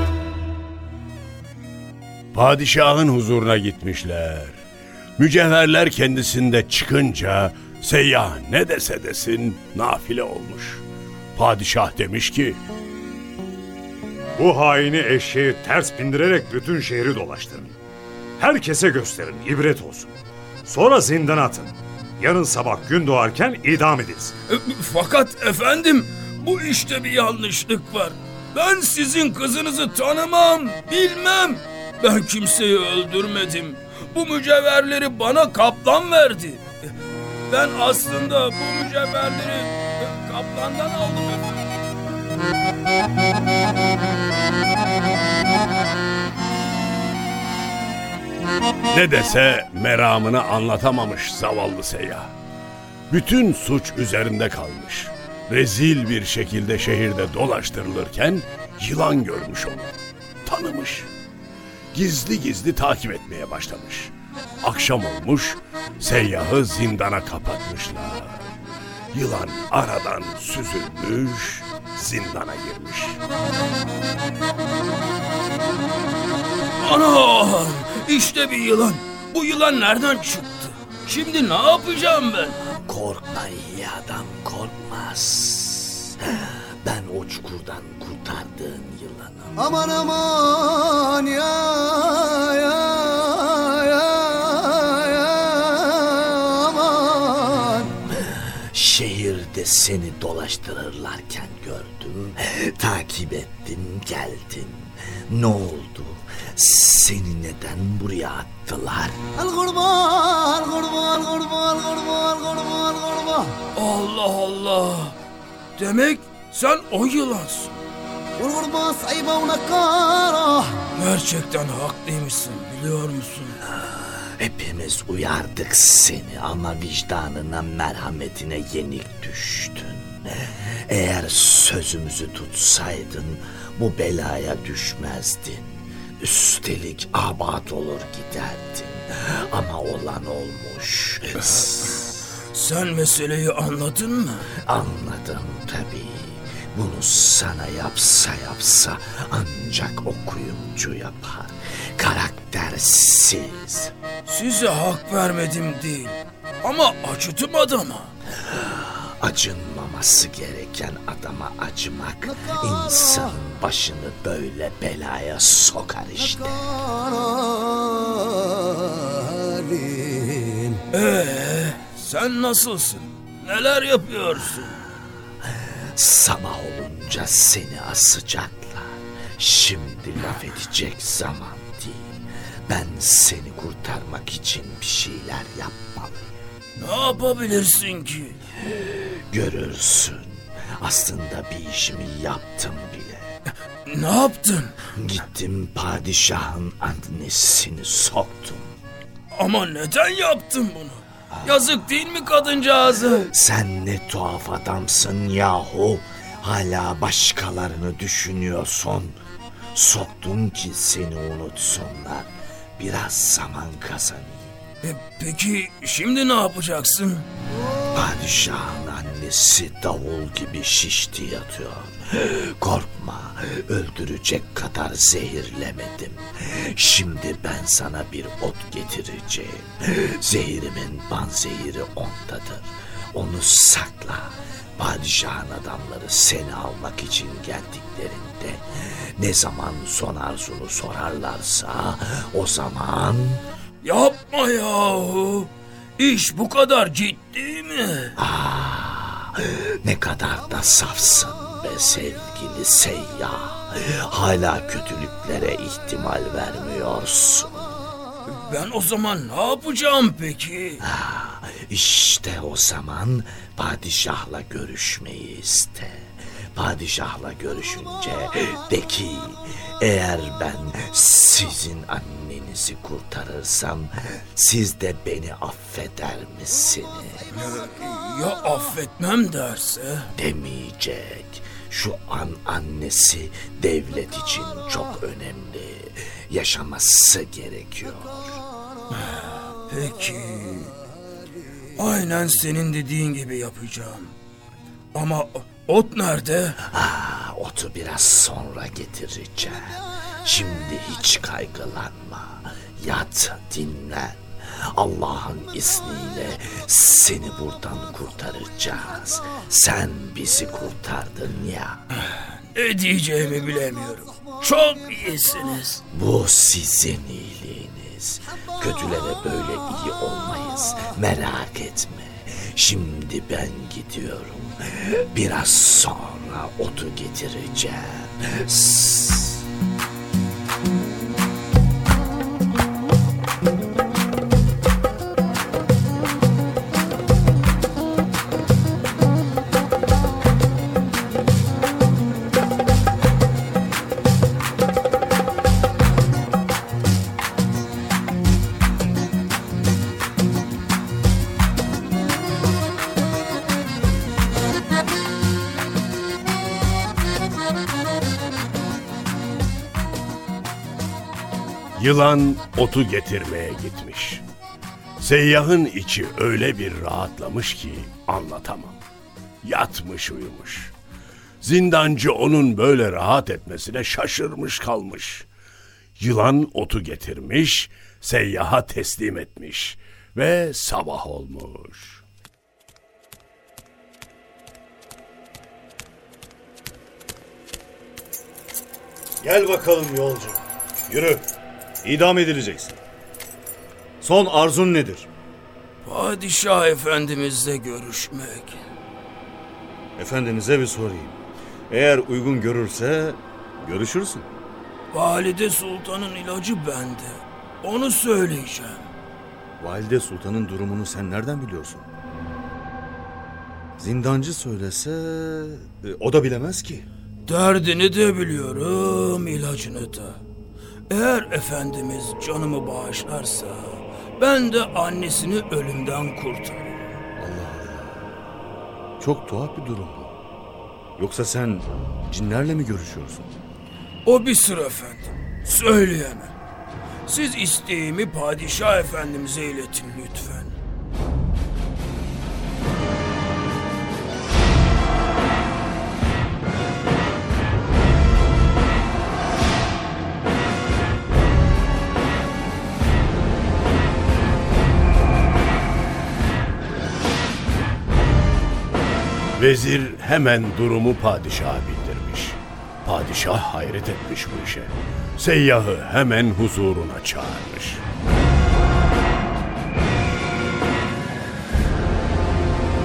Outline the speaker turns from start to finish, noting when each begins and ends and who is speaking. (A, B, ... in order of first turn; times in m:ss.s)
0:02.3-0:04.6 A
0:05.2-0:10.8 A
0:11.4-0:12.6 A
0:14.4-0:17.8 B
0:18.4-0:20.1 B
0:20.6-0:24.3 B
0:24.5-0:36.9 C
0:37.5-0:41.6 C
0:48.9-0:52.4 A
0:53.1-1:01.1 A
1:01.9-1:08.5 A
1:09.1-1:13.2 A
1:16.8-1:22.6 C
1:22.7-1:29.5 D
1:29.6-1:37.9 E
1:38.2-1:49.2 D
1:49.4-1:53.5 E
1:53.8-1:55.2 C
1:55.8-1:57.8 C
1:58.4-2:00.7 E
2:01.0-2:03.6 C
2:03.8-2:22.1 D
2:22.4-2:24.5 C
2:24.6-2:33.9 D
2:34.3-2:38.2 C
2:38.5-2:46.7 D
2:50.9-2:54.8 C
2:56.0-3:06.3 D
3:06.8-3:08.4 C
3:08.8-3:13.3 D
3:13.8-3:14.8 C
3:15.0-3:18.7 D
3:19.3-3:23.3 C
3:23.3-3:29.2 D
3:29.7-3:34.6 D
3:34.8-3:37.3 C
3:37.9-4:03.4 D
4:03.8-4:08.2 C
4:08.2-4:17.8 D
4:18.3-4:20.8 C
4:20.8-4:37.3 D
4:37.3-4:40.1 C
4:40.2-4:48.4 D
4:49.0-4:50.8 C
4:51.8-4:54.2 C
4:54.9-4:56.6 C
4:56.7-5:11.8 D
5:12.4-5:15.8 C
5:15.9-5:29.4 D
6:01.8-6:04.2 A
6:05.0-6:08.8 A
6:09.4-6:10.7 A
6:11.4-6:15.3 A
6:16.0-6:22.0 A
6:29.2-6:31.3 F
6:31.8-6:32.8 F
6:34.0-6:35.1 F
6:35.8-6:38.6 C
6:40.0-6:41.2 F
6:41.7-6:44.3 F
6:44.9-6:48.9 C
6:49.6-6:51.9 F
6:53.8-6:56.9 F
6:57.3-7:00.2 C
7:00.9-7:07.0 C
7:07.2-7:08.1 F
7:09.0-7:10.1 F
7:11.0-7:13.3 F
7:14.0-7:16.3 C
7:17.0-7:20.6 C
7:39.4-7:47.8 A